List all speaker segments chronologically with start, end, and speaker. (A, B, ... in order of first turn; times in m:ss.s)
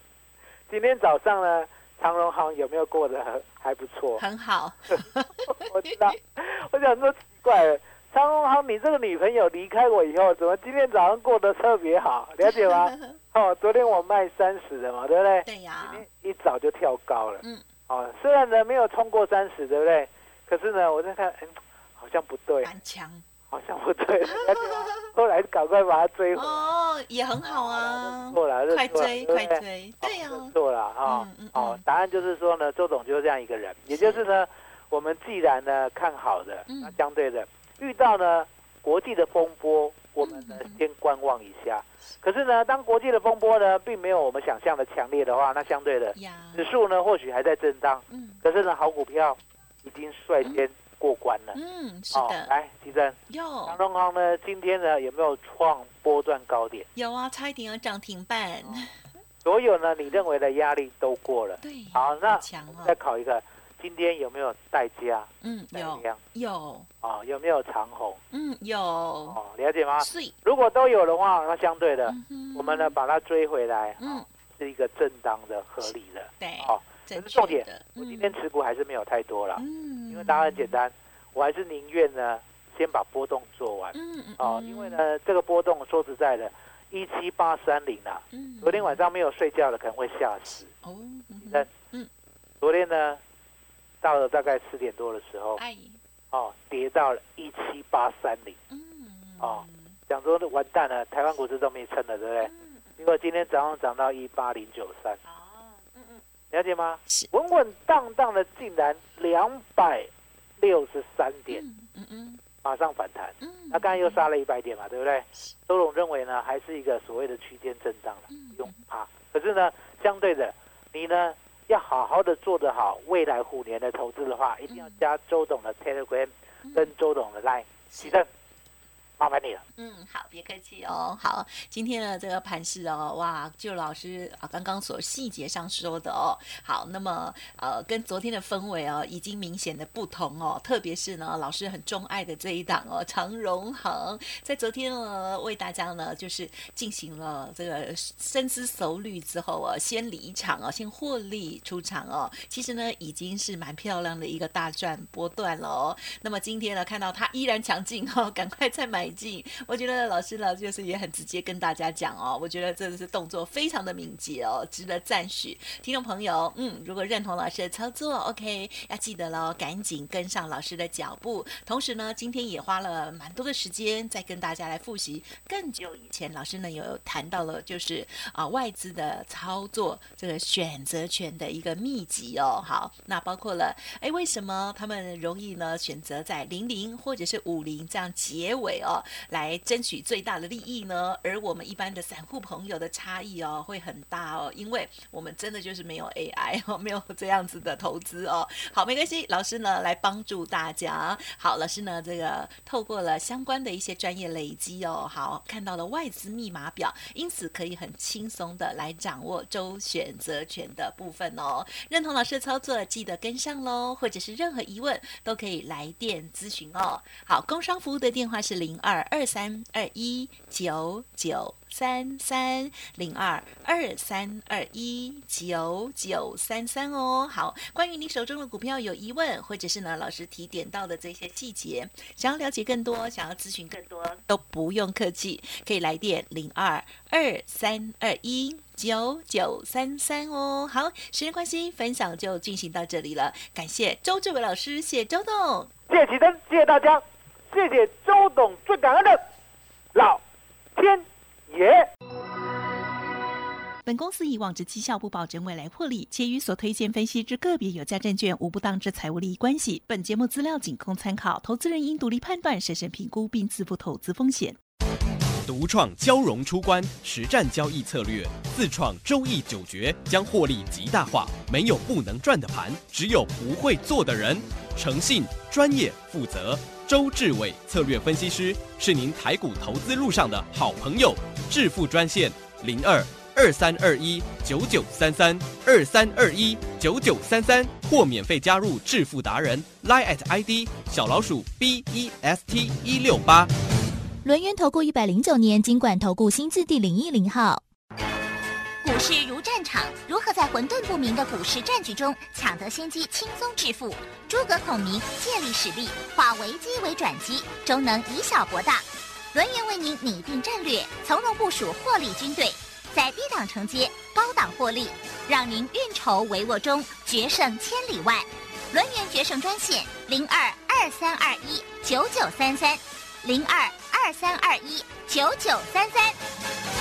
0:00.7-0:04.2 A
0:04.2-0:06.2 B
0:04.9-0:22.7 A
0:12.4-0:13.2 B
0:15.4-0:16.0 B
0:22.6-0:23.2 B
0:23.5-0:26.7 A
0:24.3-0:25.0 B
0:26.3-0:31.8 B
0:27.4-0:51.6 A
0:33.9-0:34.2 B
0:36.7-0:37.0 B
0:40.2-0:40.8 B
0:46.1-0:46.6 B
0:48.1-0:48.4 B
0:51.5-0:52.5 B
0:52.1-0:56.9 A
0:53.3-0:53.8 B
0:56.9-0:59.0 B
0:58.6-1:06.2 A
1:01.6-1:03.0 B
1:05.4-1:06.9 B
1:07.0-1:08.2 A
1:08.3-1:09.4 B
1:09.3-1:30.7 A
1:10.0-1:10.4 B
1:12.0-1:13.0 B
1:14.0-1:14.3 B
1:15.8-1:18.4 B
1:19.6-1:20.8 B
1:23.9-1:25.0 B
1:28.3-1:29.0 B
1:30.8-1:32.1 B
1:31.4-1:31.7 A
1:32.6-1:33.2 A
1:34.0-1:35.6 A
1:35.6-1:36.0 B
1:36.3-1:38.6 A
1:38.7-1:40.0 B
1:39.4-1:45.2 A
1:42.4-1:43.0 B
1:45.2-1:46.2 B
1:46.5-1:51.6 A
1:51.5-1:52.4 B
1:52.6-2:08.3 A
1:53.4-1:54.2 B
1:58.3-1:58.8 B
2:04.7-2:05.0 B
2:06.6-2:06.9 B
2:07.9-2:08.2 B
2:09.2-2:09.6 A
2:09.8-4:05.7 B
4:05.9-4:09.2 A
4:09.9-4:10.2 A
4:10.8-4:11.9 A
4:13.8-4:24.6 B
4:25.4-4:53.5 C
4:54.2-4:57.6 D
4:58.8-5:26.2 E